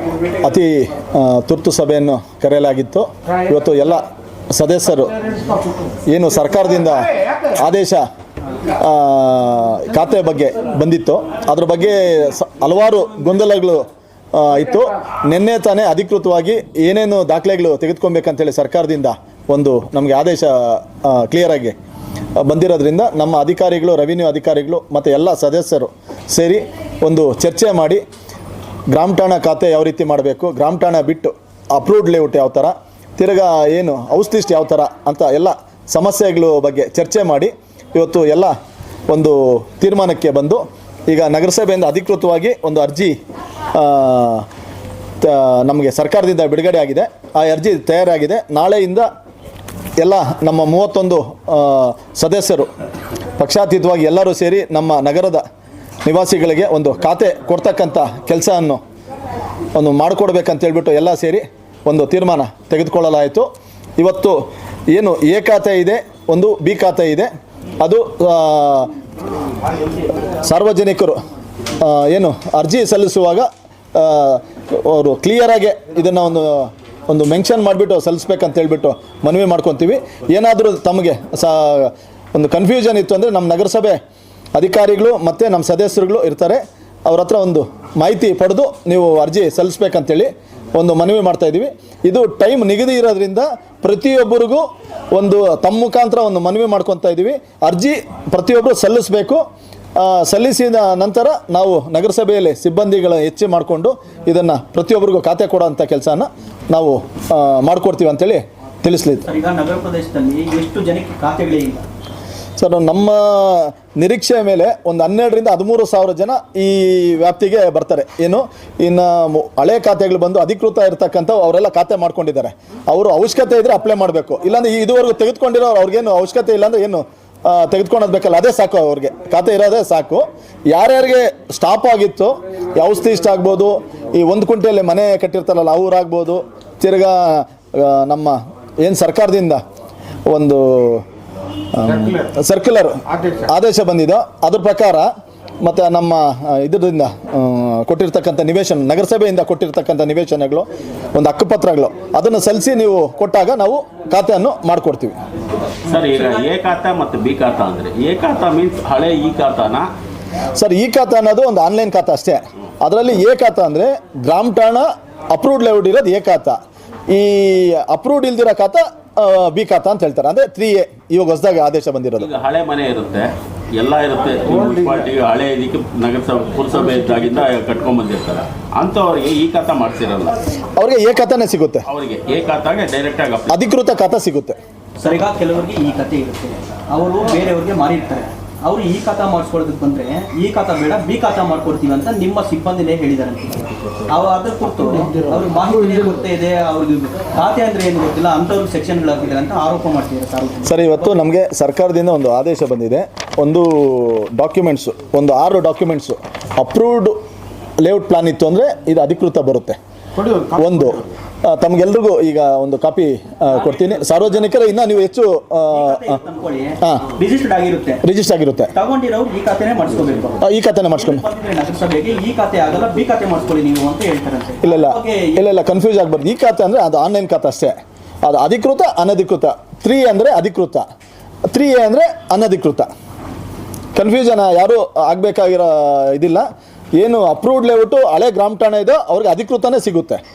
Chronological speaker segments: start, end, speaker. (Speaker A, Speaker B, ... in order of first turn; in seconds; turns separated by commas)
Speaker A: 0.4-5.1, Speaker A: 6.1-8.0, Speaker A: 8.8-21.7, Speaker A: 22.4-28.0, Speaker A: 28.9-38.5, Speaker A: 39.1-43.1, Speaker A: 43.7-44.5, Speaker A: 45.2-49.0, Speaker A: 50.0-52.7, Speaker A: 53.4-55.4, Speaker A: 56.0-58.8, Speaker A: 59.7-63.5, Speaker A: 64.0-67.3, Speaker A: 67.8-68.9, Speaker A: 70.4-71.2, Speaker A: 71.8-84.0, Speaker A: 84.5-99.4, Speaker A: 100.0-109.2, Speaker B: 109.2-111.8, Speaker A: 112.6-139.6, Speaker A: 140.3-141.0, Speaker A: 141.7-145.1, Speaker A: 145.6-155.2, Speaker C: 155.8-159.9, Speaker B: 155.9-156.4, Speaker A: 160.5-166.6, Speaker A: 167.1-172.3, Speaker C: 172.2-180.4, Speaker A: 180.8-181.9, Speaker C: 181.9-183.6, Speaker A: 183.5-184.6, Speaker B: 185.0-200.8, Speaker A: 200.6-207.2, Speaker A: 207.8-209.8, Speaker A: 210.5-216.1, Speaker B: 213.5-214.1, Speaker B: 215.7-218.0, Speaker A: 218.0-218.7, Speaker B: 218.7-220.4, Speaker A: 220.4-221.2, Speaker B: 220.9-225.4, Speaker A: 224.6-230.8, Speaker A: 231.5-232.9, Speaker A: 233.9-236.4, Speaker A: 236.9-240.2